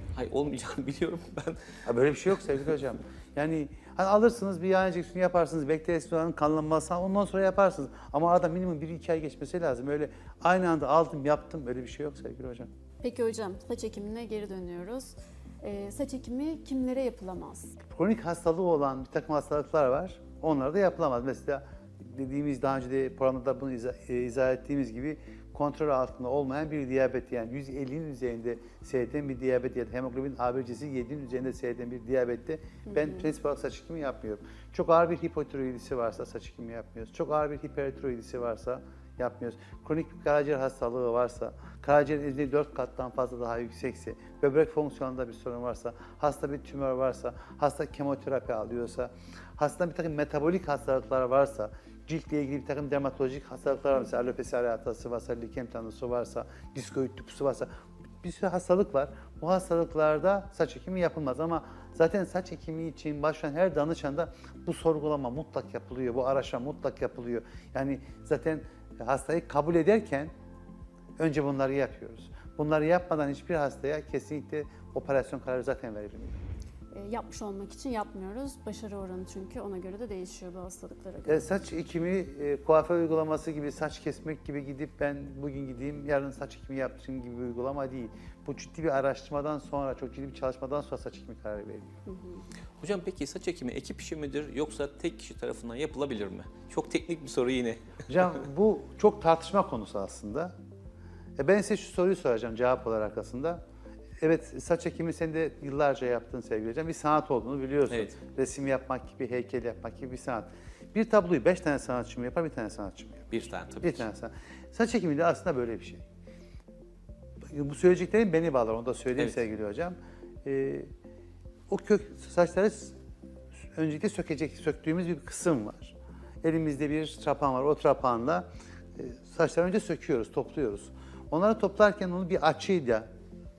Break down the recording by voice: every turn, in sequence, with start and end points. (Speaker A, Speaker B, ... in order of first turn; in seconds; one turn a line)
Speaker A: 0.2-1.6
Speaker B: 1.9-12.7
Speaker C: 13.0-17.8
Speaker B: 17.9-57.7
Speaker C: 32.9-33.3
Speaker B: 58.2-70.3
Speaker B: 71.2-76.4
Speaker C: 76.9-81.5
Speaker B: 81.3-92.0
Speaker C: 92.1-92.4
Speaker A: 92.8-98.0
Speaker B: 98.1-100.5
Speaker B: 101.4-103.6
Speaker B: 104.2-116.0
Speaker A: 107.9-108.2
Speaker A: 113.3-114.1
Speaker B: 117.5-120.9
Speaker B: 121.7-123.0
Speaker B: 123.7-133.1